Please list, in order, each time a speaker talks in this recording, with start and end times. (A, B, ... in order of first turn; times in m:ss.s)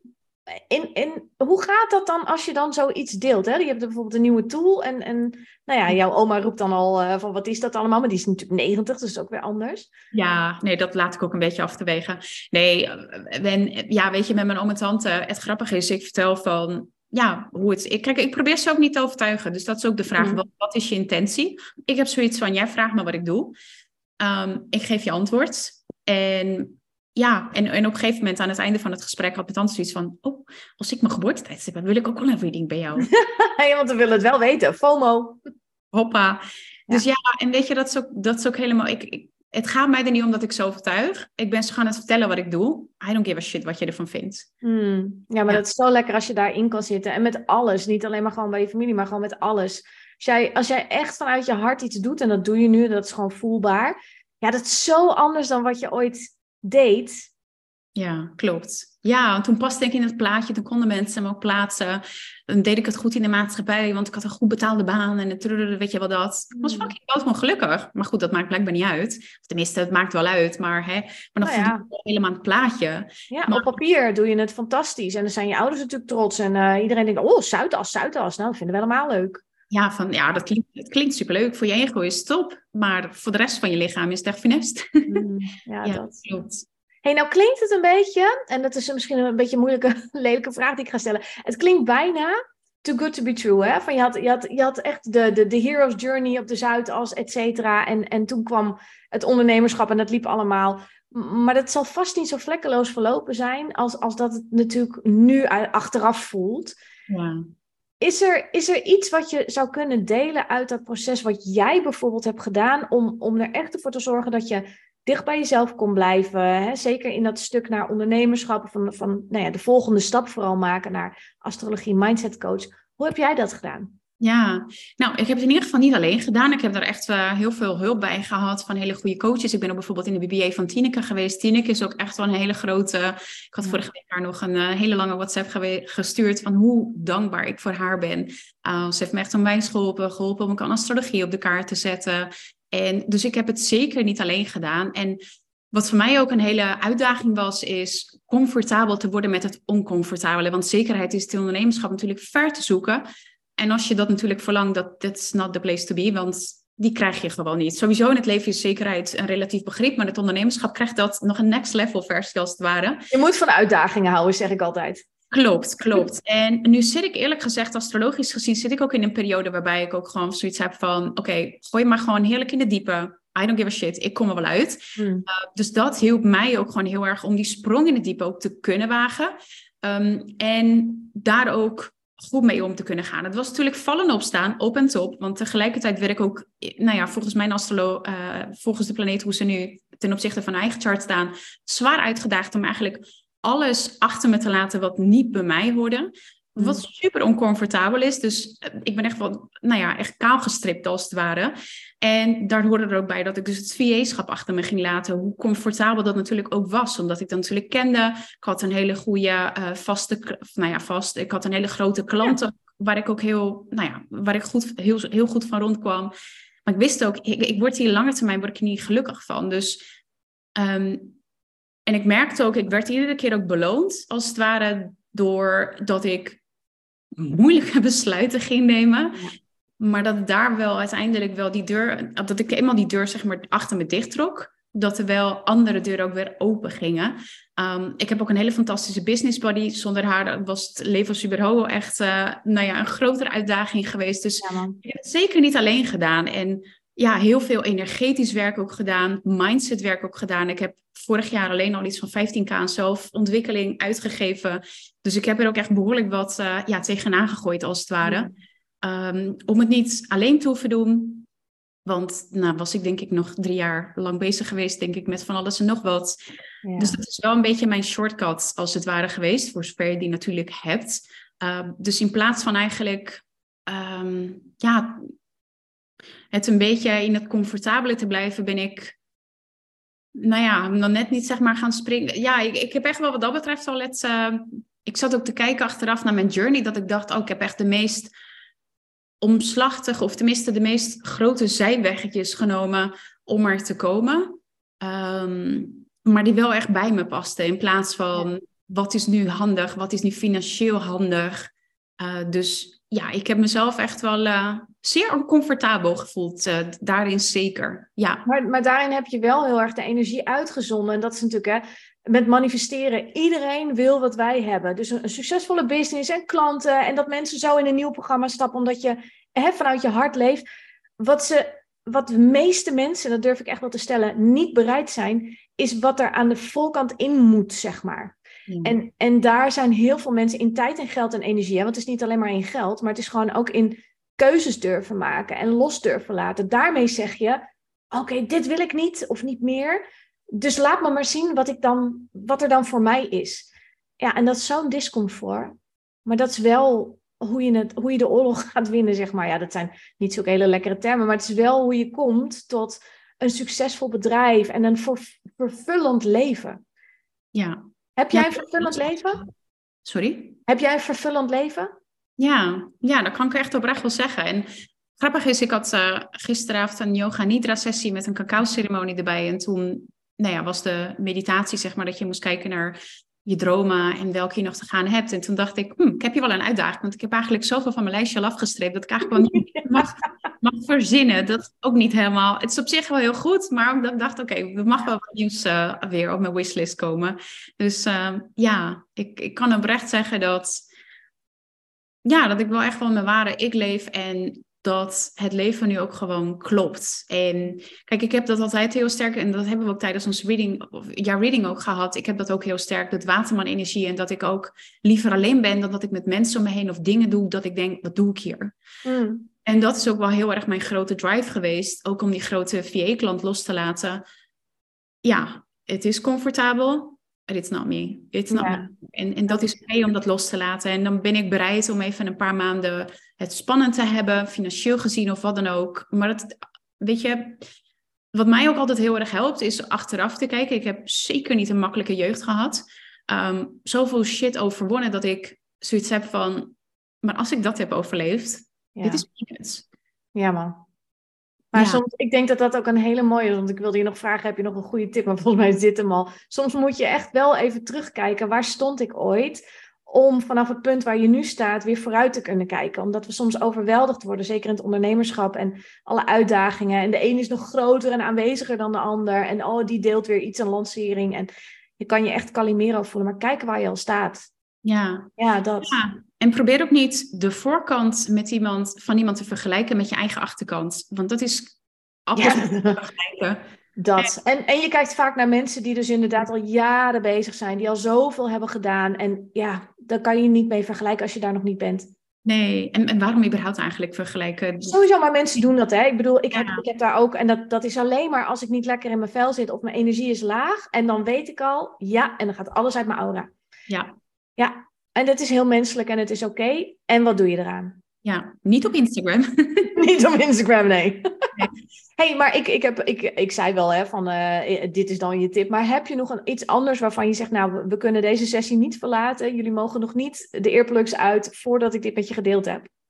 0:00.5-0:09.9 A
0:10.1-0:23.6 B
0:20.2-0:20.4 A
0:24.2-0:33.1 B
0:33.0-0:35.4 A
0:35.9-0:44.5 B
0:44.6-0:57.3 A
0:57.9-1:13.7 B
1:06.5-1:06.9 A
1:11.4-1:11.8 A
1:13.3-1:19.4 A
1:19.7-1:25.2 B
1:25.1-1:26.2 A
1:25.8-1:26.6 B
1:27.0-1:46.7 A
1:47.1-1:47.4 B
1:48.0-2:03.9 A
2:04.2-2:25.2 B
2:25.7-2:33.0 B
2:33.6-2:43.0 B
2:43.1-2:45.0 A
2:45.3-3:36.1 B
2:55.0-2:55.2 A
3:16.6-3:16.8 A
3:36.6-3:39.8 B
3:40.5-3:41.2 B
3:41.8-3:46.4 B
3:47.1-3:49.3 B
3:49.8-4:18.3 B
4:04.4-4:04.8 A
4:18.0-4:18.3 A
4:18.8-4:21.2 B
4:21.8-4:26.2 B
4:26.6-4:27.0 A
4:26.8-4:35.1 B
4:36.3-4:39.0 B
4:40.1-4:48.1 B
4:49.2-5:08.2 B
5:08.2-5:20.4 A
5:21.0-5:37.4 A
5:28.5-5:28.8 B
5:37.9-5:39.8 A
5:40.3-5:43.5 A
5:44.0-5:56.6 A
5:57.3-5:59.3 B
5:58.0-5:59.2 A
5:59.8-6:00.4 B
6:00.5-6:01.7 A
6:02.2-6:30.6 B
6:19.3-6:19.9 A
6:32.0-6:48.5 B
6:48.8-6:49.3 A
6:49.4-6:54.0 B
6:55.0-7:07.4 B
6:58.3-6:58.7 A
7:08.1-7:19.6 B
7:18.7-7:19.0 A
7:20.1-7:20.6 A
7:21.5-7:44.3 A
7:21.5-7:21.8 B
7:44.6-7:45.1 B
7:45.2-7:45.8 A
7:45.6-7:53.4 B
7:52.2-7:52.8 A
7:53.8-8:01.9 A
8:02.2-8:04.8 B
8:04.6-8:13.3 A
8:06.3-8:06.6 B
8:13.7-8:13.9 B
8:14.4-8:17.8 A
8:18.0-8:19.8 B
8:19.7-8:21.3 A
8:22.0-8:32.7 A